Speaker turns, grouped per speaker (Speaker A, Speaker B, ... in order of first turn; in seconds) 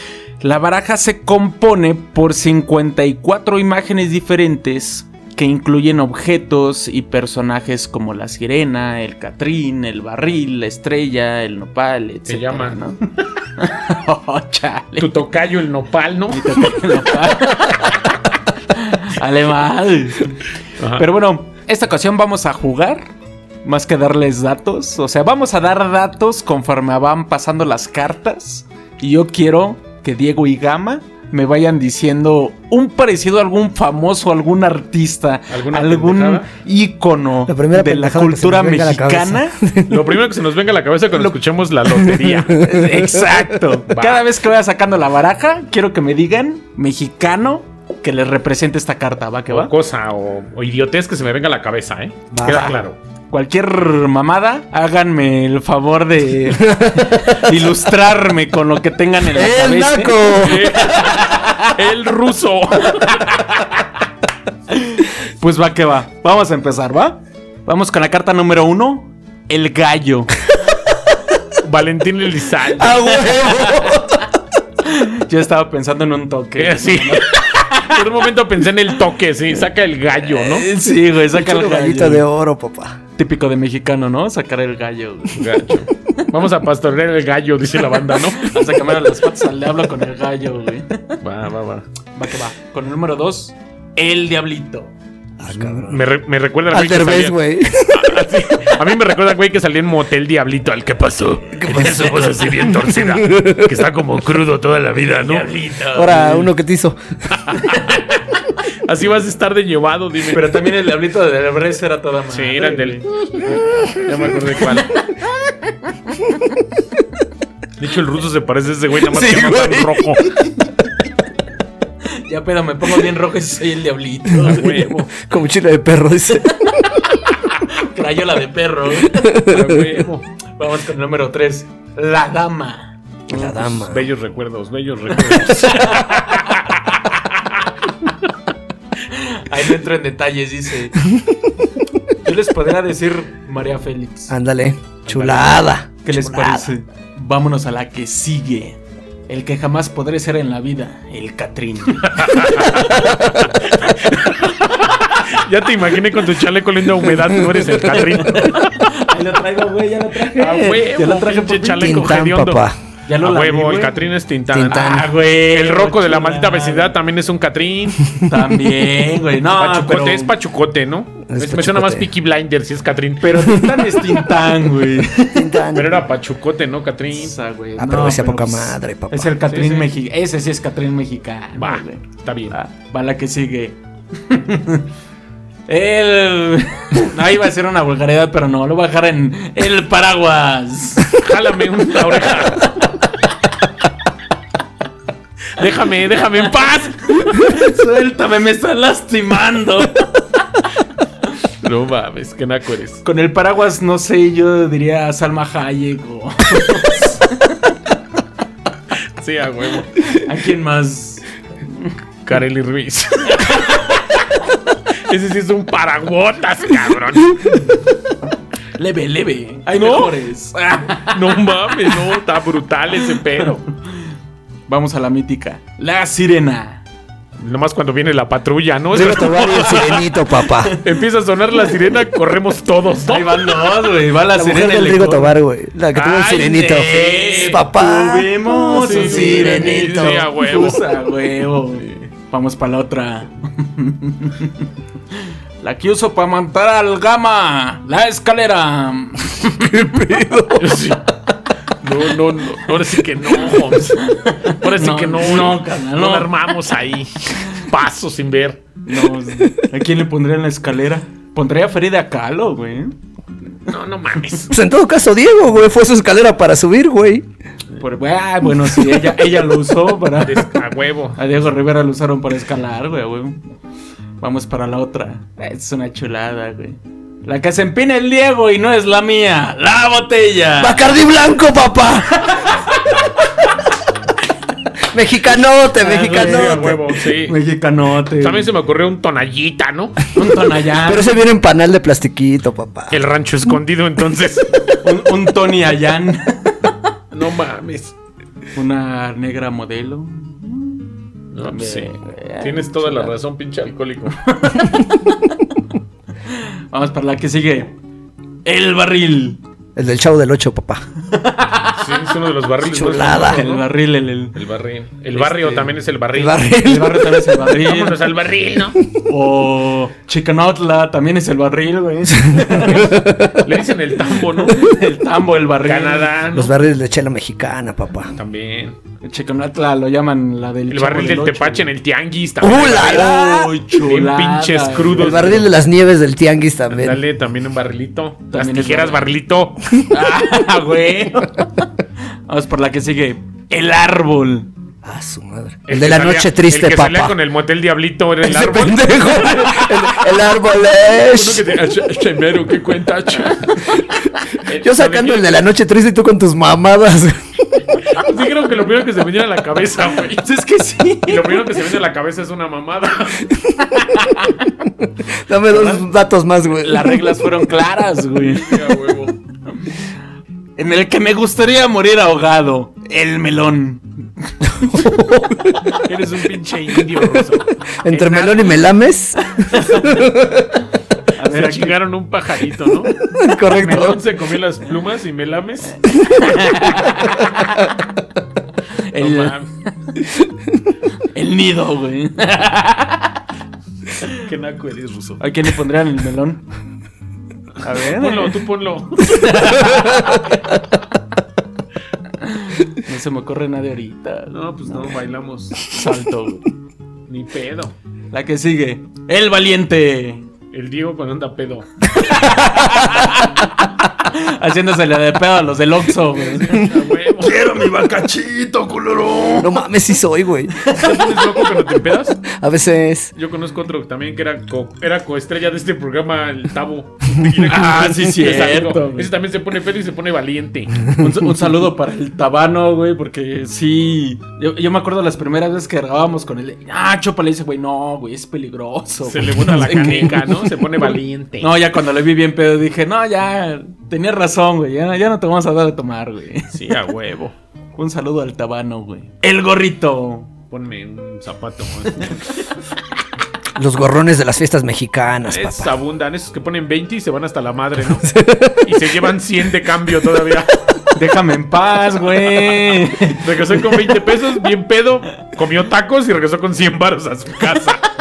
Speaker A: 0.4-15.1, 16.3-23.1, 23.6-39.6, 42.5-49.7, 53.3-61.7, 64.7-70.5, 72.9-74.0, 74.8-78.1, 80.2-82.2, 83.2-85.5, 88.1-91.2, 92.1-94.9, 105.2-106.5, 110.3-113.0, 115.7-116.2, 119.1-120.3, 122.1-124.8, 126.7-129.4, 130.6-133.8, 135.2-136.4, 139.1-141.0, 142.2-144.3, 145.2-153.3, 158.2-162.1, 163.1-164.1, 164.7-166.9, 168.2-170.3, 173.2-175.6, 177.1-184.9, 185.7-191.2, 192.0-192.9, 197.1-200.6, 203.0-207.7, 210.0-211.2, 218.8-222.0, 224.7-226.8, 229.5-230.8, 233.0-235.4, 236.2-250.0, 253.3-256.5, 258.8-262.9, 267.8-270.5, 271.2-273.5, 274.2-280.9, 282.1-283.3, 285.7-288.5, 290.1-291.1, 294.7-296.7, 298.5-300.9, 301.4-303.1, 304.1-305.4, 306.3-307.7, 308.4-309.4, 311.1-311.8, 313.0-314.4, 315.1-315.8, 316.6-318.1, 319.1-322.9, 324.4-326.1, 329.0-331.7, 332.8-335.4, 338.3-339.1, 339.9-341.7, 342.3-344.5, 360.1-361.6, 363.9-364.4, 365.5-365.8, 366.6-368.8, 370.6-374.8, 379.5-380.1, 381.2-381.8, 385.9-387.6, 388.9-389.4, 390.9-393.1, 395.2-396.4, 397.6-398.4, 399.0-400.8, 402.2-405.0, 405.6-406.4, 408.1-410.2, 411.9-419.6, 420.6-421.5, 427.5-429.1, 430.9-446.6, 447.8-450.3, 460.9-463.6
Speaker B: 12.3-12.8, 15.0-16.8, 20.8-21.1, 35.5-36.5, 39.9-42.7, 43.9-44.2, 49.5-53.0, 60.4-63.9, 71.6-73.2, 76.5-80.7, 85.3-88.5, 91.2-91.8, 95.5-105.5, 107.3-108.2, 108.8-110.5, 112.3-114.9, 117.8-120.3, 124.4-125.1, 129.3-130.2, 133.8-137.7, 145.1-145.5, 152.0-158.8, 160.3-162.7, 163.2-168.2, 169.6-173.7, 175.7-177.3, 179.5-179.9, 181.6-182.6, 191.1-192.9, 195.6-197.0, 201.6-203.0, 209.2-210.2, 212.2-214.2, 215.1-217.6, 219.7-223.7, 227.4-230.1, 230.8-233.6, 235.9-237.4, 238.6-240.8, 241.7-242.0, 250.6-251.0, 251.8-258.6, 263.7-264.5, 270.2-271.2, 286.1-287.4, 288.1-290.1, 292.9-294.5, 297.1-297.9, 301.3-304.2, 311.7-313.6, 314.3-316.4, 317.6-318.8, 322.5-324.6, 325.6-326.5, 328.1-328.8, 330.7-333.2, 333.8-335.5, 336.7-339.8, 345.7-350.0, 350.8-355.4, 357.7-360.3, 361.1-363.4, 368.2-369.1, 375.8-378.6, 381.2-383.0, 383.5-386.3, 388.9-389.5, 394.1-395.2, 397.7-399.9, 404.3-405.6, 407.1-407.7, 410.5-412.4, 416.1-417.4, 420.7-422.2, 423.1-430.9, 439.0-441.5, 446.5-447.3, 450.5-452.3, 455.3-460.7, 463.0-467.8
Speaker C: 37.5-40.1, 41.9-43.6, 52.3-52.8, 56.6-57.6, 59.3-60.9, 72.8-74.2, 80.8-83.0, 95.4-96.0, 96.7-98.2, 101.5-103.8, 105.9-107.0, 119.2-119.7, 124.3-127.0, 129.1-129.8, 133.3-134.1, 144.3-146.7, 152.7-153.5, 161.8-162.7, 164.5-165.1, 171.3-172.1, 175.2-176.0, 177.8-179.4, 228.9-230.8, 234.3-240.3, 249.7-250.8, 259.3-259.7, 264.5-267.3, 280.6-282.4, 284.9-286.8, 290.8-293.0, 309.8-310.9, 312.6-313.5, 316.1-317.6, 322.3-323.5, 326.3-328.1, 332.4-333.5, 335.0-337.0, 344.8-347.2, 348.2-351.5, 354.5-357.6, 365.0-367.3, 374.6-375.7, 377.8-380.6, 383.1-384.0, 419.4-420.6, 422.3-423.1, 427.2-427.5, 453.5-455.7, 458.0-458.8